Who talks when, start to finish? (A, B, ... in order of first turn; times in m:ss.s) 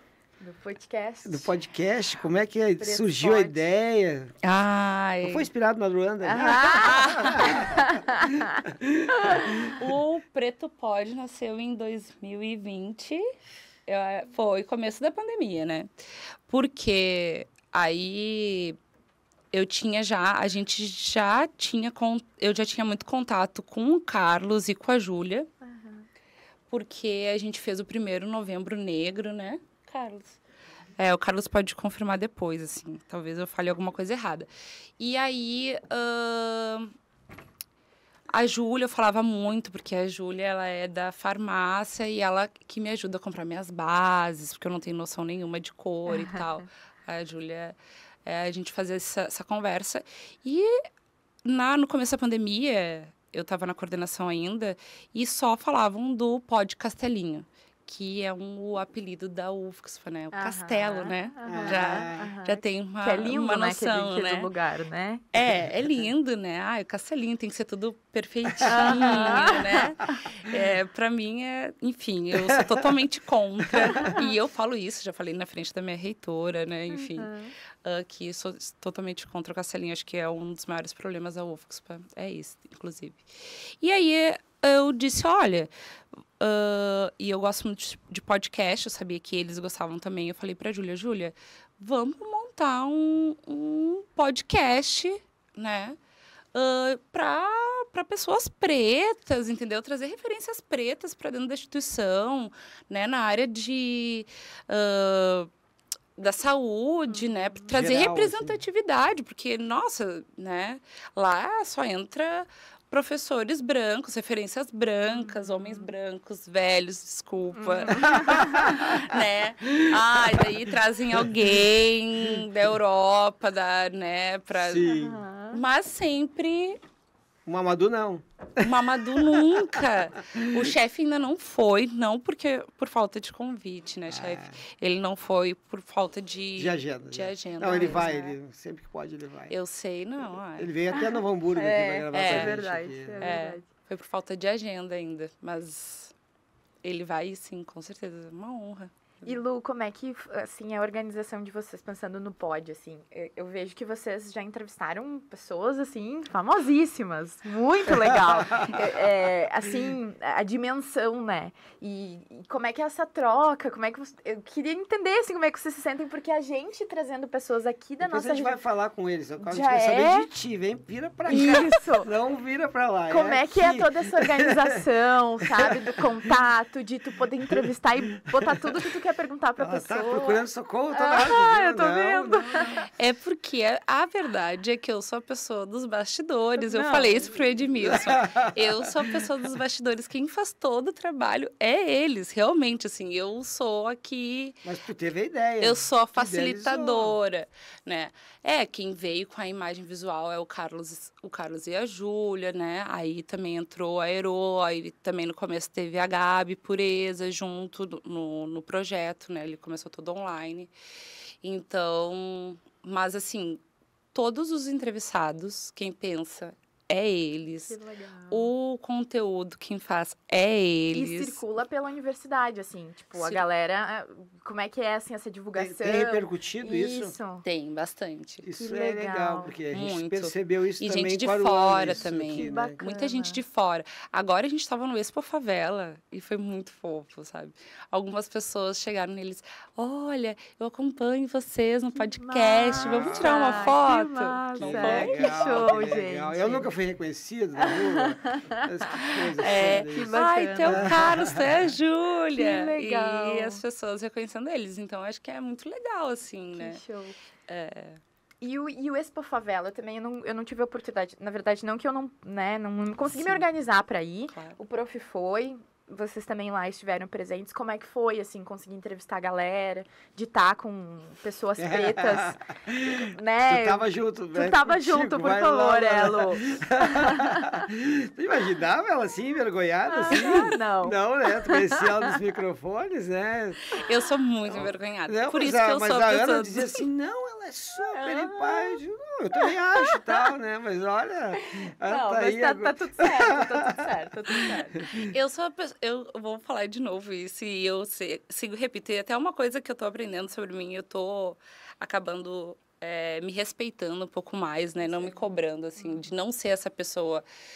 0:00.4-0:01.5 A
0:01.2-0:04.3 B
0:02.8-0:03.6 A
0:04.4-0:05.5 C
0:05.2-0:09.7 B
0:06.2-0:08.6 A
0:06.4-0:07.7 C
0:09.6-0:13.2 C
0:13.9-0:15.9 C
0:16.5-0:18.8 C
0:19.5-0:25.5 C
0:25.6-0:26.1 A
0:26.7-0:30.4 C
0:31.0-0:36.9 C
0:38.3-0:50.8 C
0:46.1-0:46.4 A
0:51.4-1:04.5 C
1:00.3-1:05.2 A
1:01.4-1:02.3 B
1:05.3-1:25.7 C
1:08.7-1:10.3 A
1:12.3-1:12.9 B
1:13.6-1:14.1 B
1:16.9-1:17.5 A
1:26.4-1:36.0 C
1:36.5-1:45.5 C
1:46.2-2:05.0 C
1:47.1-1:47.4 A
1:47.7-1:48.6 B
1:55.1-1:55.9 A
1:57.6-1:58.9 A
1:58.0-2:00.6 B
2:01.1-2:01.5 B
2:04.6-2:05.2 B
2:04.8-2:05.6 A
2:05.5-2:06.8 C
2:07.5-2:09.8 B
2:08.6-2:18.1 C
2:10.4-2:10.7 B
2:14.1-2:14.6 B
2:16.6-2:19.6 B
2:17.7-2:18.3 A
2:19.5-2:20.7 C
2:20.6-2:23.4 B
2:20.9-2:23.6 A
2:22.1-2:22.6 C
2:23.2-2:26.1 C
2:26.8-2:28.9 C
2:29.2-2:48.6 A
2:48.0-2:54.6 B
2:49.4-2:50.3 A
2:51.3-2:52.1 A
2:53.1-3:02.8 A
2:59.6-3:02.7 B
3:03.0-3:14.6 C
3:06.6-3:07.5 A
3:07.8-3:08.8 B
3:14.6-3:17.2 B
3:15.6-3:30.7 C
3:31.4-3:33.6 C
3:34.1-3:37.8 C
3:37.6-3:38.5 A
3:38.3-3:41.4 C
3:40.9-3:47.4 A
3:43.1-3:43.4 C
3:45.6-3:47.1 B
3:47.4-3:48.5 C
3:48.4-3:52.8 B
3:48.6-3:49.6 A
3:49.7-4:05.9 C
3:52.4-3:53.4 A
4:01.9-4:06.7 A
4:02.8-4:03.6 B
4:04.6-4:11.7 B
4:07.6-4:11.1 A
4:09.1-4:16.8 C
4:12.4-4:13.6 A
4:16.6-4:17.2 A
4:17.5-4:18.0 C
4:18.4-4:37.7 A
4:23.1-4:23.4 C
4:31.6-4:43.8 B
4:39.9-4:42.2 A
4:43.8-4:46.8 C
4:44.5-4:53.9 B
4:47.9-4:48.8 A
4:49.8-4:50.2 A
4:51.9-4:54.9 A
4:54.8-4:55.1 B
4:55.0-5:07.2 C
5:04.8-5:06.1 A